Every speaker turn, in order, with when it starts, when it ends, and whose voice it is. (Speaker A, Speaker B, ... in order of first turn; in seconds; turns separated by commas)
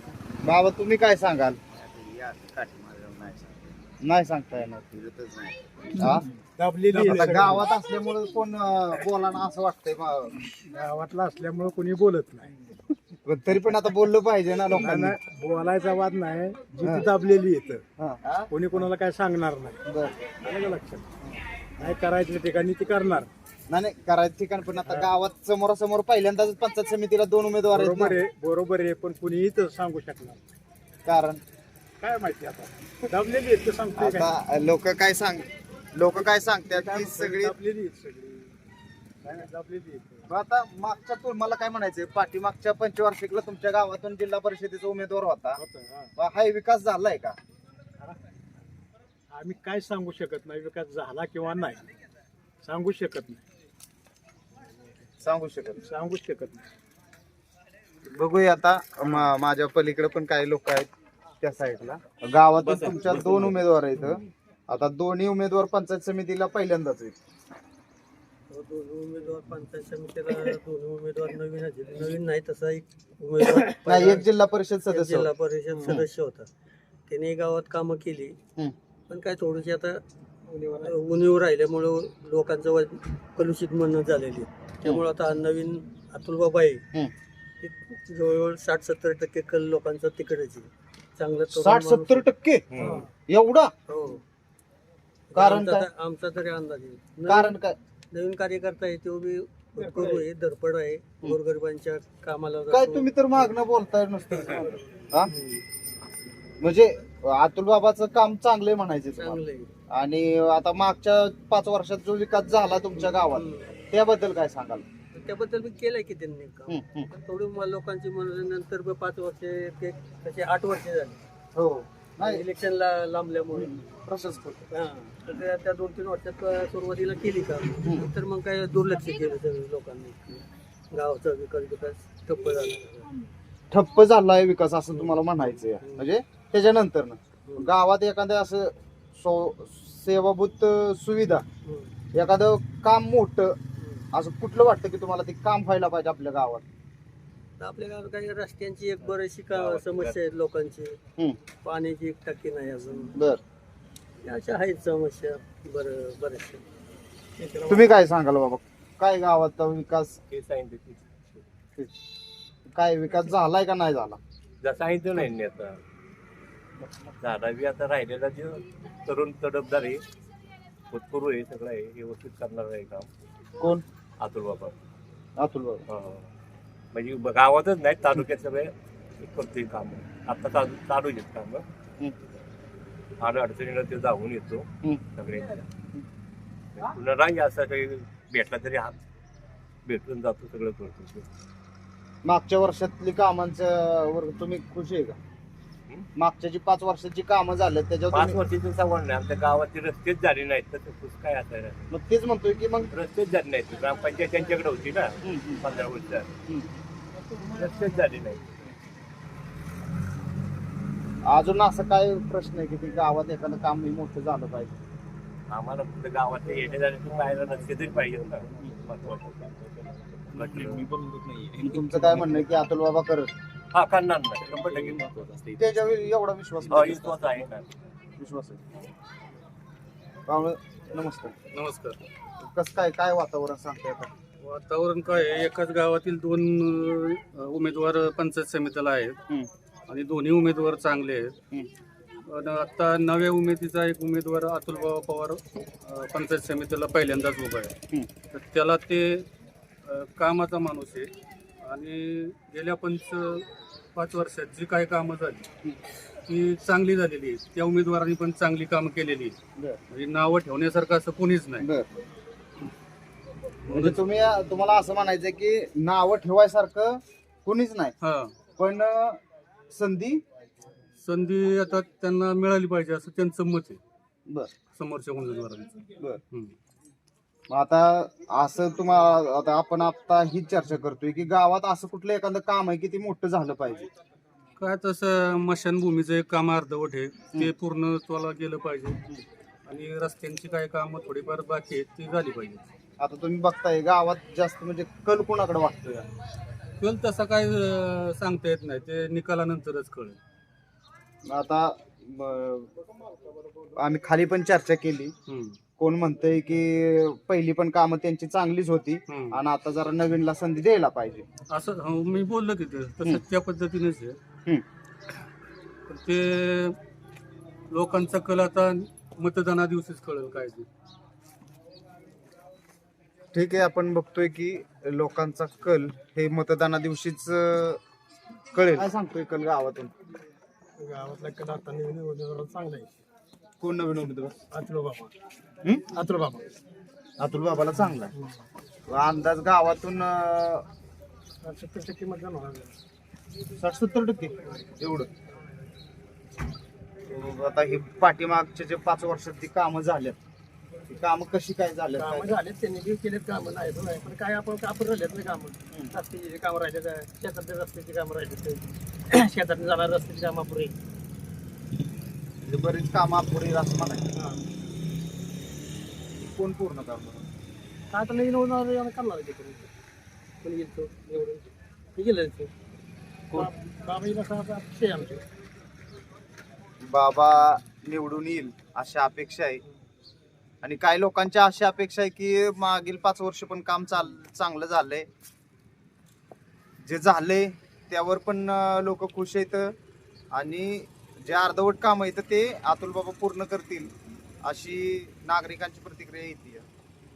Speaker A: 0.4-1.6, Speaker A: 4.0-5.2, Speaker A: 5.9-6.2, Speaker B: 6.6-7.7, Speaker A: 6.9-10.4, Speaker B: 10.7-12.5, Speaker A: 13.2-15.1, Speaker B: 14.8-17.8, Speaker A: 18.0-18.5, Speaker B: 18.5-19.8, Speaker A: 19.9-20.1, Speaker B: 20.4-21.1, Speaker B: 21.8-23.3, Speaker A: 23.7-28.2, Speaker B: 27.7-30.4, Speaker A: 31.1-31.4, Speaker B: 32.0-34.3, Speaker A: 34.0-37.5, Speaker B: 36.1-38.5, Speaker B: 39.2-40.2, Speaker A: 40.3-45.6, Speaker B: 45.6-46.1, Speaker A: 46.2-47.4, Speaker B: 49.3-51.9, Speaker B: 52.6-53.4, Speaker A: 55.2-55.8, Speaker B: 55.9-56.6, Speaker A: 58.1-60.9, Speaker A: 61.4-67.2, Speaker C: 62.8-63.5, Speaker D: 68.5-74.2, Speaker A: 73.9-75.3, Speaker D: 74.9-76.5, Speaker D: 77.1-78.3, Speaker D: 79.1-80.0, Speaker B: 80.5-80.9, Speaker D: 80.8-86.8, Speaker D: 87.6-92.2, Speaker A: 91.5-93.7, Speaker C: 92.7-93.0, Speaker D: 93.9-94.2, Speaker D: 95.3-97.6, Speaker A: 95.3-95.9, Speaker A: 97.3-97.8, Speaker D: 98.1-103.4, Speaker B: 99.8-100.2, Speaker A: 102.7-105.3, Speaker A: 106.6-114.8, Speaker D: 109.1-109.7, Speaker D: 113.0-113.7, Speaker D: 115.1-121.2, Speaker A: 116.7-117.1, Speaker A: 121.5-122.4, Speaker D: 122.2-123.8, Speaker A: 123.5-124.7, Speaker D: 124.7-133.1, Speaker A: 133.7-141.4, Speaker D: 141.7-141.9, Speaker A: 142.1-143.6, Speaker A: 144.1-146.6, Speaker D: 147.6-151.0, Speaker C: 149.5-150.1, Speaker D: 151.6-153.1, Speaker A: 153.2-153.4, Speaker D: 154.2-156.6, Speaker B: 157.4-157.8, Speaker A: 157.7-160.2, Speaker C: 160.3-161.4, Speaker A: 162.7-164.2, Speaker C: 164.6-165.8, Speaker C: 167.2-170.0, Speaker C: 170.9-173.1, Speaker A: 173.6-173.8, Speaker C: 174.2-174.8, Speaker A: 175.4-175.8, Speaker C: 175.9-176.2, Speaker C: 176.9-181.6, Speaker C: 183.2-184.7, Speaker C: 185.2-185.6, Speaker C: 186.8-189.0, Speaker C: 189.9-191.2, Speaker A: 192.2-195.2, Speaker A: 196.2-198.4, Speaker C: 198.1-201.9, Speaker A: 201.9-202.9, Speaker C: 202.9-206.3, Speaker A: 205.2-205.6, Speaker C: 207.4-208.5, Speaker A: 211.2-214.7, Speaker C: 215.5-220.9, Speaker A: 221.7-223.3, Speaker C: 223.7-225.2, Speaker A: 225.6-227.2, Speaker C: 226.7-227.7, Speaker A: 228.2-228.6, Speaker A: 230.3-231.3, Speaker E: 231.5-232.0, Speaker A: 232.4-234.1, Speaker E: 234.4-239.2, Speaker E: 239.9-241.3, Speaker E: 242.3-247.7, Speaker E: 248.3-249.2, Speaker E: 249.9-251.1, Speaker E: 251.7-253.4, Speaker E: 254.0-255.4, Speaker E: 256.3-259.4, Speaker E: 259.9-261.7, Speaker A: 261.6-261.9, Speaker E: 263.7-264.0, Speaker A: 263.7-267.9, Speaker E: 268.0-268.3, Speaker A: 268.6-269.2, Speaker A: 269.7-270.2, Speaker E: 271.0-273.8, Speaker E: 274.8-275.7, Speaker A: 277.5-283.9, Speaker E: 284.6-289.0, Speaker E: 289.7-292.6, Speaker A: 293.0-296.1, Speaker E: 296.8-300.2, Speaker A: 301.2-302.7, Speaker A: 303.8-305.1, Speaker E: 305.3-305.6, Speaker A: 305.8-311.2, Speaker E: 309.1-309.4, Speaker E: 311.5-314.2, Speaker E: 315.9-316.8, Speaker E: 317.7-320.7, Speaker A: 323.3-327.8, Speaker A: 328.5-329.9, Speaker B: 330.8-332.9, Speaker A: 333.6-334.4, Speaker B: 334.5-335.1, Speaker B: 335.9-336.5, Speaker A: 337.2-338.1, Speaker A: 338.9-340.6, Speaker B: 341.4-342.7, Speaker A: 343.6-345.1, Speaker A: 347.1-350.2, Speaker A: 350.9-352.4, Speaker F: 352.2-360.7, Speaker A: 362.4-364.0, Speaker A: 366.2-367.2, Speaker F: 367.9-369.7, Speaker F: 370.4-372.5, Speaker F: 373.4-375.2, Speaker B: 373.9-375.2, Speaker A: 376.9-379.6, Speaker A: 380.6-385.1, Speaker A: 386.8-389.7, Speaker A: 390.3-393.9, Speaker A: 394.4-396.7